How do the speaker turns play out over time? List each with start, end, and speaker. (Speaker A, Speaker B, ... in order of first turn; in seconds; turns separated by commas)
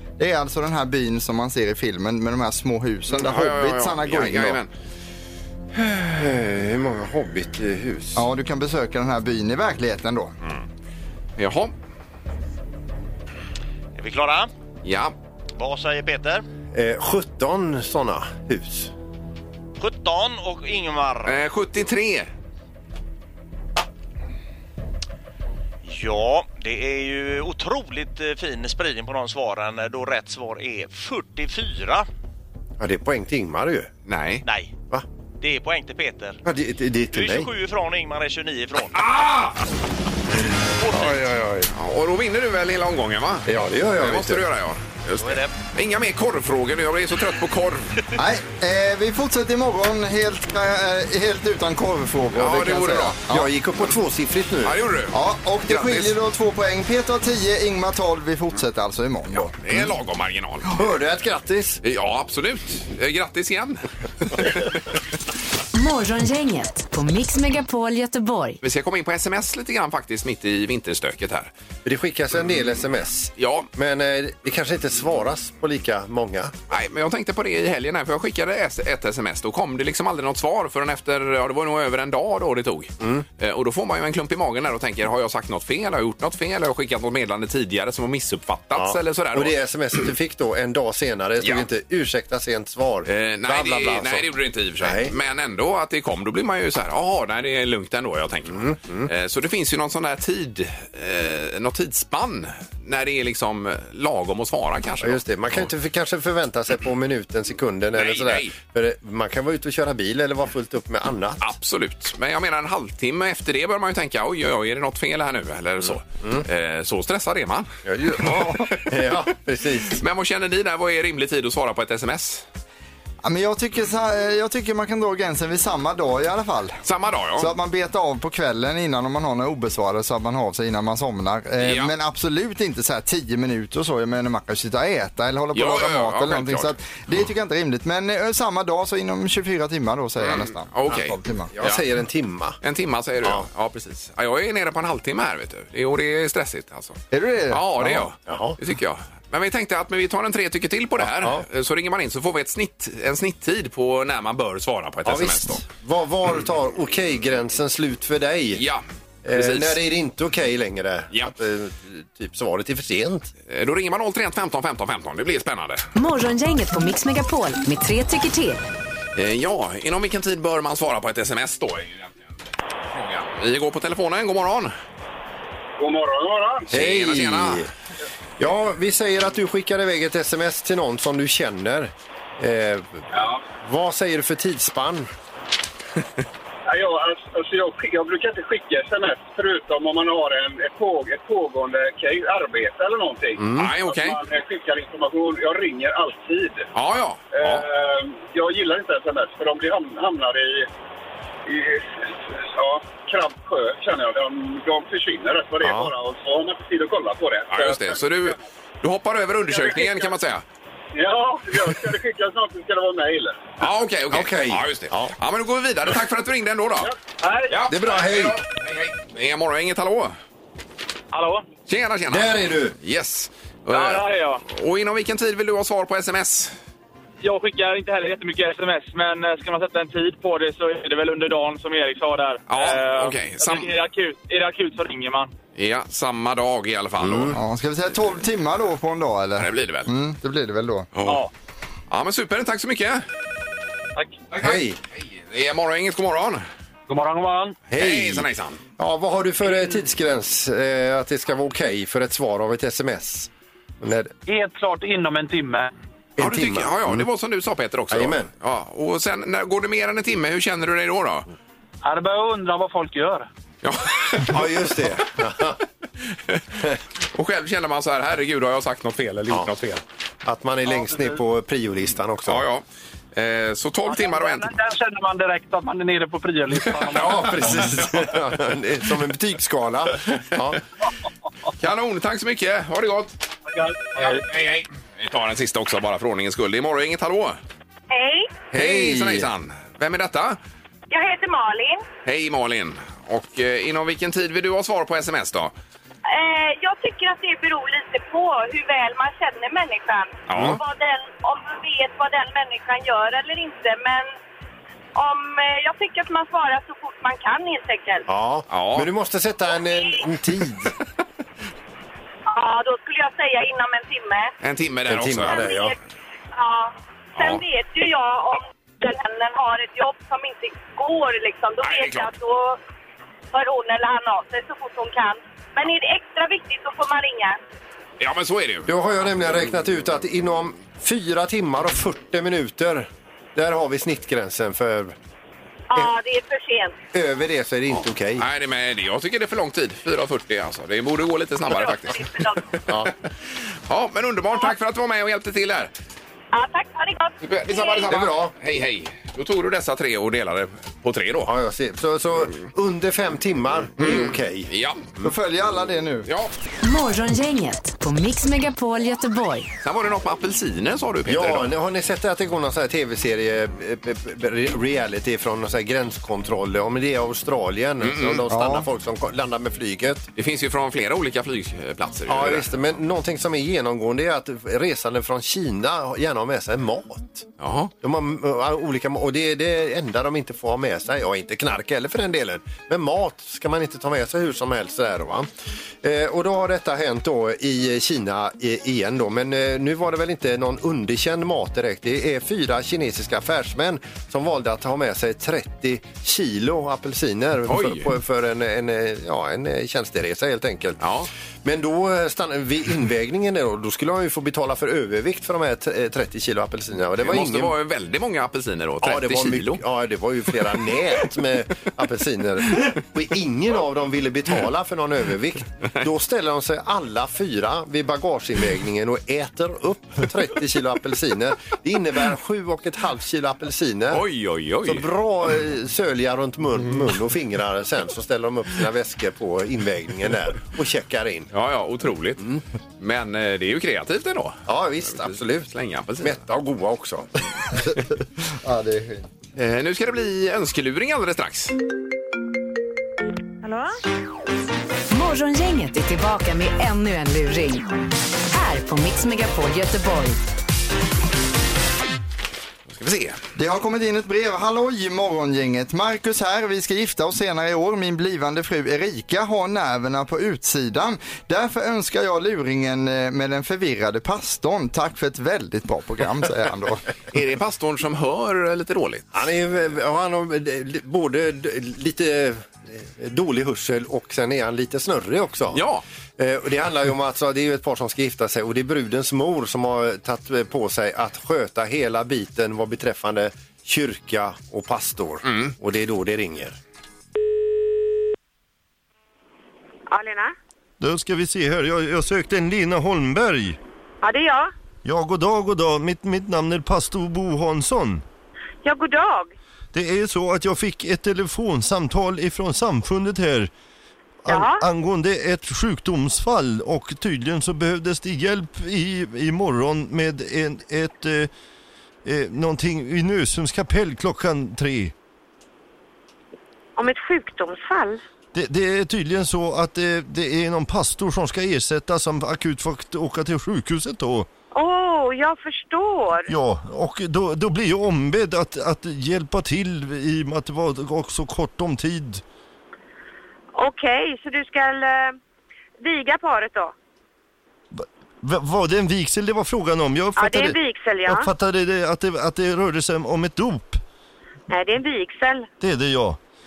Speaker A: 0.2-4.6, Speaker B: 3.1-4.7, Speaker C: 5.7-8.2, Speaker A: 8.2-10.3, Speaker B: 11.4-11.7, Speaker D: 13.9-14.5, Speaker B: 14.8-15.1, Speaker D: 15.6-16.4, Speaker C: 16.7-18.9, Speaker D: 19.8-21.4, Speaker B: 21.2-22.3, Speaker D: 25.8-32.0, Speaker C: 32.8-33.9, Speaker B: 34.1-34.4, Speaker D: 34.4-34.8, Speaker D: 35.4-36.4, Speaker C: 36.4-37.5, Speaker D: 37.1-39.0, Speaker B: 38.9-39.6, Speaker D: 40.8-41.2, Speaker B: 40.9-47.9, Speaker C: 41.2-41.7, Speaker C: 43.5-44.5, Speaker D: 45.2-45.5, Speaker A: 48.1-53.5, Speaker B: 52.3-53.2, Speaker C: 53.3-54.8, Speaker B: 54.6-55.1, Speaker A: 55.1-59.5, Speaker B: 55.7-56.1, Speaker B: 59.3-60.8, Speaker C: 60.7-61.8, Speaker B: 61.8-64.8, Speaker E: 65.7-68.6, Speaker B: 68.6-71.5, Speaker C: 71.8-76.5, Speaker B: 73.4-73.7, Speaker B: 76.7-89.5, Speaker C: 83.0-83.2, Speaker C: 88.7-94.3, Speaker B: 91.4-91.7, Speaker B: 93.0-105.7, Speaker C: 94.8-95.1, Speaker C: 98.5-99.1, Speaker C: 105.0-111.5, Speaker B: 108.0-108.5, Speaker B: 111.4-117.7, Speaker C: 117.8-120.0, Speaker A: 118.2-118.6, Speaker B: 118.3-119.2, Speaker B: 119.9-122.5, Speaker A: 123.2-126.8, Speaker B: 126.8-127.5, Speaker A: 127.4-141.5, Speaker B: 131.6-131.9, Speaker B: 135.5-136.7, Speaker B: 140.2-141.8, Speaker C: 141.5-142.6, Speaker B: 142.6-147.0, Speaker A: 147.1-148.1, Speaker B: 147.5-155.6, Speaker C: 148.3-148.6, Speaker C: 151.0-151.4, Speaker C: 155.0-158.6, Speaker B: 158.6-159.8, Speaker C: 159.2-163.3, Speaker B: 163.5-165.8, Speaker E: 165.9-168.7, Speaker B: 169.1-172.2, Speaker B: 172.9-174.7, Speaker F: 175.8-176.7, Speaker C: 176.7-177.7, Speaker B: 176.7-177.7, Speaker C: 178.4-183.0, Speaker F: 183.1-183.4, Speaker C: 183.6-185.1, Speaker F: 186.7-196.7, Speaker C: 193.4-193.7, Speaker B: 193.5-194.2, Speaker B: 196.7-197.7, Speaker F: 197.3-200.7, Speaker F: 201.4-208.4, Speaker C: 205.6-205.9, Speaker B: 207.5-210.4, Speaker F: 209.5-210.1, Speaker F: 210.9-213.5, Speaker B: 213.6-216.9, Speaker C: 214.1-215.1, Speaker F: 216.8-217.5, Speaker B: 217.5-220.1, Speaker C: 217.7-218.4, Speaker F: 221.1-221.4, Speaker B: 221.7-226.5, Speaker C: 222.1-222.8, Speaker F: 223.7-224.4, Speaker F: 227.2-235.3, Speaker B: 232.5-233.7, Speaker B: 235.5-237.4, Speaker C: 237.0-237.4, Speaker A: 237.3-240.9, Speaker B: 239.4-239.9, Speaker B: 240.9-241.2, Speaker B: 241.9-243.0, Speaker C: 244.3-244.8, Speaker B: 244.3-246.4, Speaker F: 246.9-247.5, Speaker C: 247.7-253.3, Speaker B: 247.8-248.6, Speaker C: 253.8-254.2, Speaker F: 255.2-255.5, Speaker C: 256.2-257.1, Speaker B: 256.2-261.3, Speaker C: 257.9-258.3, Speaker F: 261.9-263.2, Speaker B: 263.6-264.8, Speaker C: 264.3-265.6, Speaker B: 267.1-269.8, Speaker C: 270.2-272.4, Speaker B: 272.3-272.6, Speaker B: 273.1-274.5, Speaker F: 273.9-275.8, Speaker F: 276.6-276.9, Speaker C: 276.8-280.6, Speaker B: 281.6-283.1, Speaker F: 283.6-284.2, Speaker B: 283.9-287.4, Speaker G: 287.9-288.3, Speaker C: 288.5-289.3, Speaker B: 288.5-290.4, Speaker G: 290.9-291.8, Speaker B: 292.0-295.5, Speaker G: 296.1-304.1, Speaker B: 300.3-300.6, Speaker C: 300.3-300.6, Speaker G: 304.9-308.0, Speaker C: 308.1-310.7, Speaker B: 308.5-308.9, Speaker G: 312.3-314.3, Speaker B: 314.4-315.6, Speaker C: 314.9-315.7, Speaker G: 315.2-315.8, Speaker G: 316.3-322.6, Speaker B: 317.1-317.4, Speaker B: 321.6-322.1, Speaker G: 323.3-327.4, Speaker B: 328.0-328.7, Speaker C: 328.6-334.9, Speaker G: 335.7-336.8, Speaker C: 336.9-338.2, Speaker B: 338.2-342.2, Speaker G: 341.5-342.4, Speaker B: 343.7-345.7, Speaker G: 346.3-347.9, Speaker B: 347.2-351.3, Speaker C: 347.9-348.3, Speaker C: 351.2-354.5, Speaker B: 353.8-354.9, Speaker A: 355.0-356.1, Speaker E: 356.6-359.5, Speaker B: 359.6-361.5, Speaker C: 361.1-370.1, Speaker B: 367.8-368.2, Speaker A: 368.3-368.6, Speaker B: 370.1-372.5, Speaker C: 372.1-377.3, Speaker B: 377.4-377.7, Speaker C: 377.8-385.3, Speaker C: 385.8-400.8, Speaker B: 397.5-397.9, Speaker B: 400.8-401.1, Speaker C: 401.4-407.5, Speaker B: 407.0-409.6, Speaker C: 408.8-424.0, Speaker B: 423.9-424.9, Speaker C: 424.6-431.3, Speaker B: 431.3-436.2, Speaker C: 434.5-437.1, Speaker A: 438.3-439.1, Speaker B: 439.4-441.5, Speaker H: 443.4-443.8, Speaker E: 444.9-447.7, Speaker E: 448.3-450.2, Speaker B: 452.7-453.2, Speaker A: 453.4-466.8, Speaker B: 467.1-469.2, Speaker C: 469.1-475.6, Speaker B: 475.5-475.8, Speaker C: 476.2-486.6, Speaker B: 485.2-485.5, Speaker H: 489.9-490.3, Speaker I: 490.8-493.6, Speaker H: 494.0-494.5, Speaker I: 494.8-498.0, Speaker H: 498.6-499.3, Speaker I: 499.7-503.5, Speaker I: 504.2-511.3, Speaker H: 504.3-504.6, Speaker I: 512.0-514.9, Speaker H: 516.8-518.0, Speaker I: 518.3-524.3, Speaker H: 524.5-526.3, Speaker I: 526.3-532.2, Speaker H: 533.5-535.2, Speaker H: 535.8-536.7, Speaker I: 537.7-543.8, Speaker H: 540.2-541.3, Speaker H: 544.5-545.5, Speaker I: 545.6-546.2